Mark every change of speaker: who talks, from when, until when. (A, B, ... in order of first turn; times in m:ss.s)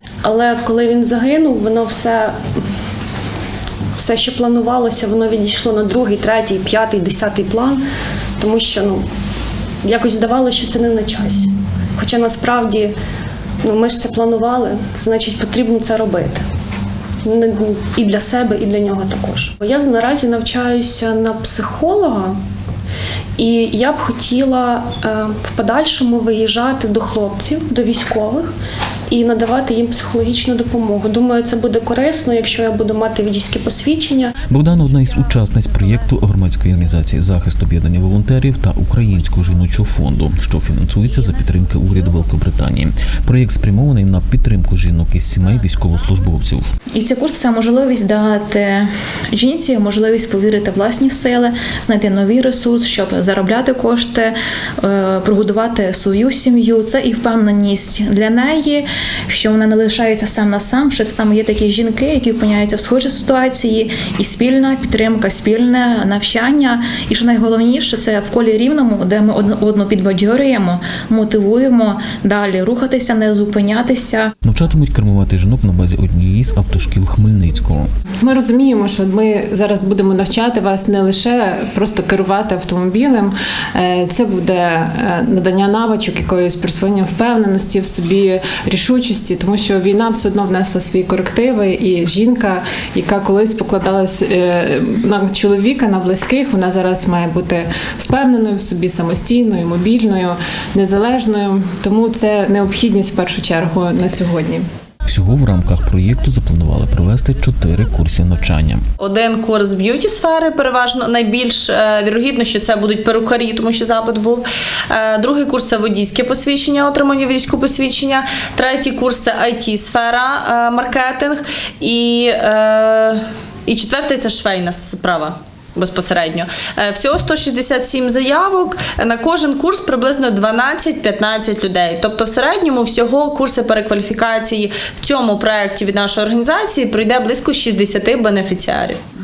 0:00.2-0:02.4 A
0:04.0-0:07.8 A
0:08.4-0:09.0 A
0:09.8-0:12.9 A
0:13.6-0:16.4 A
0:17.2-0:22.4 A
0:23.4-0:28.5 A
0:29.1-0:34.3 A
0:34.5-0:46.7 B
0:46.9-1:14.3 C
1:14.4-1:17.9 B
1:18.5-1:31.3 D
1:34.4-1:44.6 D
1:45.0-1:48.8 B
1:49.0-2:19.0 E